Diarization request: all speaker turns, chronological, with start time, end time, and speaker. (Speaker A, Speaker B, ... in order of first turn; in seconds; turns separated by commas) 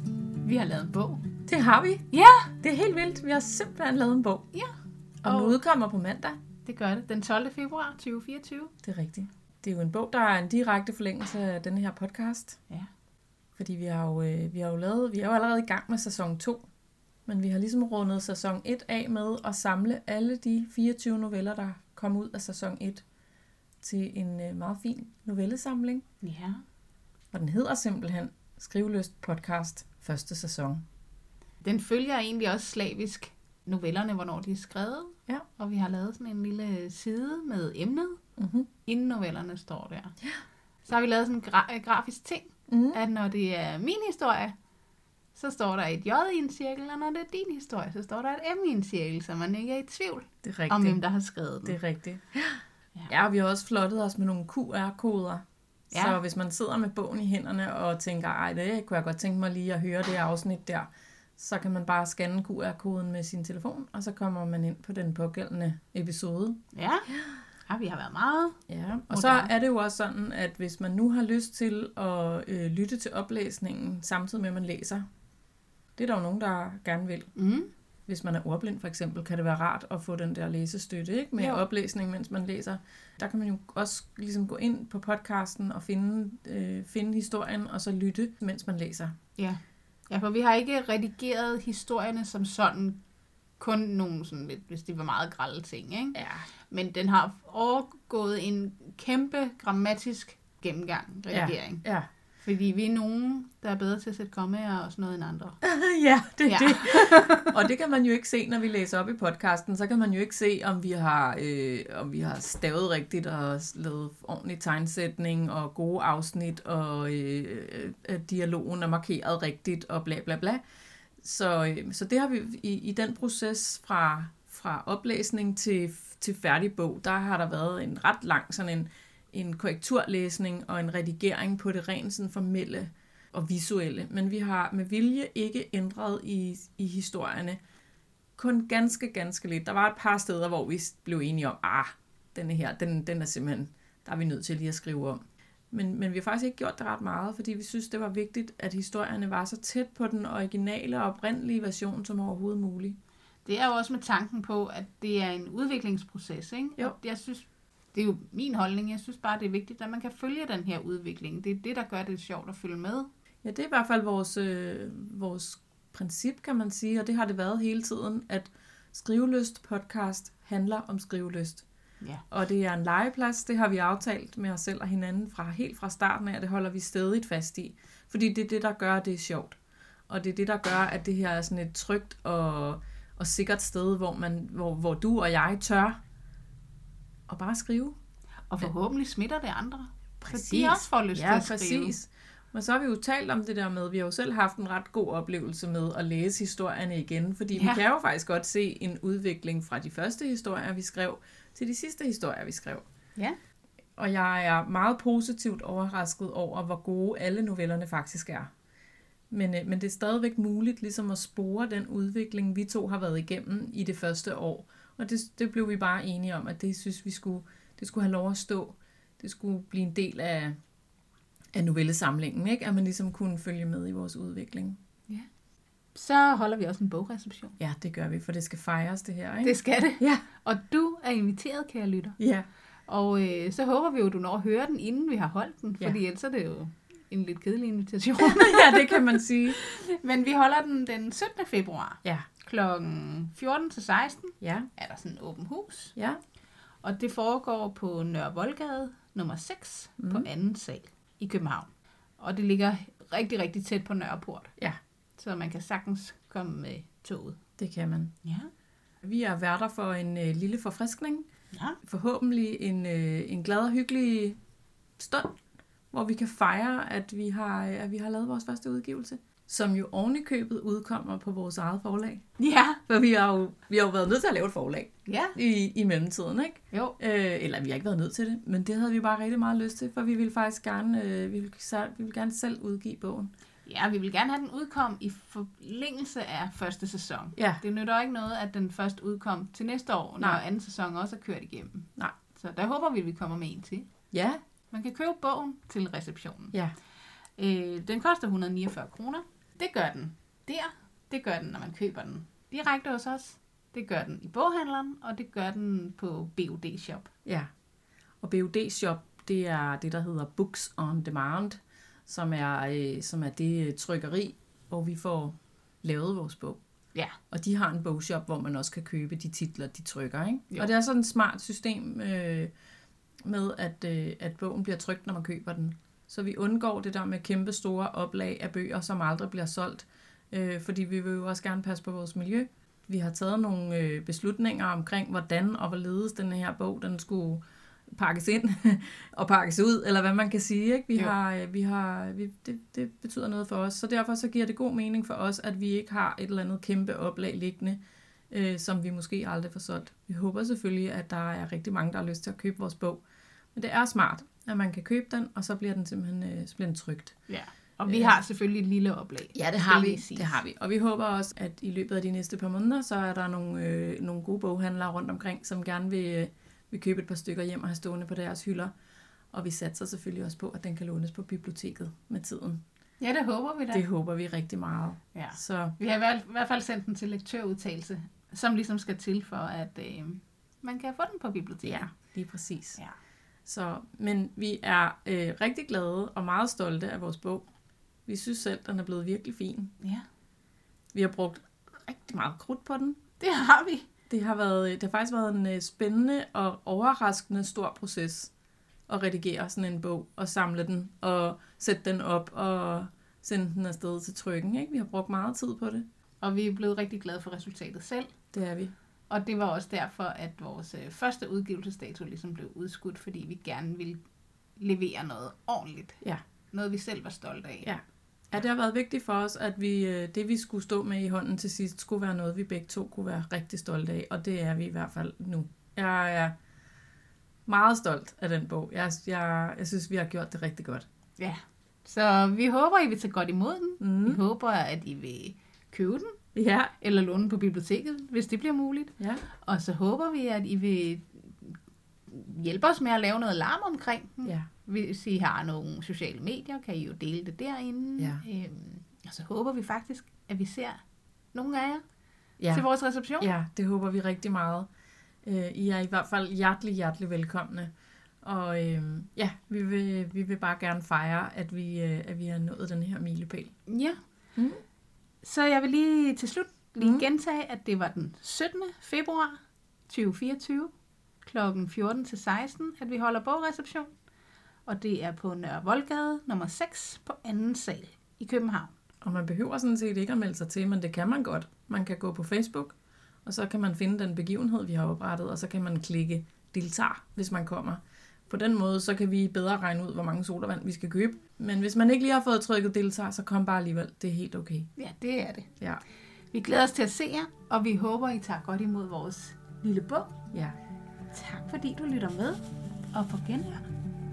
Speaker A: 0.4-1.2, Speaker B: 1.5-2.0, Speaker A: 2.1-2.5, Speaker B: 2.6-4.5, Speaker B: 5.2-6.4, Speaker A: 5.2-5.6, Speaker A: 6.7-8.7, Speaker B: 8.8-12.6, Speaker B: 13.6-16.7, Speaker B: 17.3-23.0, Speaker B: 23.8-26.0, Speaker A: 26.2-26.6, Speaker B: 27.3-30.8, Speaker A: 31.6-38.2, Speaker B: 38.4-38.7, Speaker A: 38.9-40.1, Speaker A: 40.9-44.5, Speaker B: 42.7-43.0, Speaker A: 45.4-51.8, Speaker B: 50.4-51.0, Speaker B: 51.6-66.6, Speaker A: 55.9-56.2, Speaker A: 66.7-67.1, Speaker B: 67.1-67.4, Speaker A: 67.7-68.6, Speaker B: 68.7-75.0, Speaker A: 69.1-69.5, Speaker B: 76.0-77.3, Speaker A: 77.4-77.7, Speaker B: 78.1-89.1, Speaker A: 81.4-81.6, Speaker A: 89.4-93.0, Speaker A: 93.6-96.2, Speaker B: 96.2-96.5, Speaker A: 96.7-101.8, Speaker B: 101.3-102.1, Speaker A: 102.5-105.6, Speaker B: 105.6-120.6, Speaker A: 106.5-107.5, Speaker B: 121.2-137.6, Speaker B: 138.4-145.2, Speaker B: 145.7-153.0, Speaker A: 153.4-163.1, Speaker B: 163.4-171.7, Speaker B: 172.3-179.6, Speaker B: 180.1-186.0, Speaker B: 187.3-188.0, Speaker A: 188.5-191.9, Speaker B: 190.2-202.8, Speaker A: 197.6-197.8, Speaker B: 204.0-208.5, Speaker B: 209.3-220.6, Speaker B: 221.5-224.8, Speaker A: 225.9-227.6, Speaker B: 227.6-230.2, Speaker A: 229.4-232.2, Speaker B: 232.2-232.5, Speaker A: 232.9-245.9, Speaker B: 238.2-239.6, Speaker B: 244.4-244.7, Speaker A: 246.8-251.7, Speaker B: 250.0-250.3, Speaker A: 252.2-254.5, Speaker A: 255.2-257.4, Speaker B: 257.6-258.1, Speaker A: 258.2-258.5, Speaker B: 259.0-261.3, Speaker A: 261.5-261.8, Speaker B: 261.8-264.4, Speaker B: 265.0-265.4, Speaker B: 265.9-272.2, Speaker A: 272.4-272.8, Speaker B: 272.9-283.3, Speaker A: 275.1-275.4, Speaker A: 276.7-277.0, Speaker A: 283.7-293.9, Speaker B: 287.4-287.6, Speaker B: 294.1-294.4, Speaker A: 294.7-296.6, Speaker A: 297.4-307.1, Speaker B: 308.2-316.6, Speaker B: 317.3-322.5, Speaker B: 323.2-337.4, Speaker B: 337.9-347.8, Speaker B: 348.3-353.0, Speaker B: 353.6-357.2, Speaker A: 357.3-360.4, Speaker B: 357.9-358.2, Speaker B: 359.3-368.7, Speaker B: 369.3-372.6, Speaker A: 373.0-373.9, Speaker B: 373.7-375.8, Speaker A: 375.1-381.9, Speaker B: 381.6-382.8, Speaker B: 383.5-387.5, Speaker B: 388.1-389.7, Speaker B: 390.9-393.0, Speaker A: 393.2-393.9, Speaker B: 394.1-398.3, Speaker B: 398.9-405.9, Speaker A: 406.2-408.1, Speaker B: 408.3-408.7, Speaker A: 409.1-414.0, Speaker A: 414.6-416.0, Speaker A: 416.5-417.7, Speaker B: 418.3-426.3, Speaker B: 427.5-430.9, Speaker A: 431.2-436.2, Speaker B: 433.8-434.2, Speaker B: 436.4-436.7, Speaker A: 436.8-441.6, Speaker B: 439.0-439.2, Speaker A: 442.1-450.8, Speaker A: 451.3-451.8, Speaker A: 452.5-453.3, Speaker B: 453.2-454.7, Speaker B: 455.2-457.7, Speaker B: 458.2-463.6, Speaker A: 463.7-464.0, Speaker B: 464.4-464.6, Speaker A: 465.2-469.4, Speaker B: 466.8-467.1, Speaker A: 469.9-470.7, Speaker A: 471.2-473.9, Speaker A: 474.7-478.7, Speaker B: 479.0-482.8, Speaker B: 483.3-494.7, Speaker A: 494.8-495.5, Speaker A: 496.3-500.2, Speaker A: 501.1-502.4, Speaker A: 502.9-503.7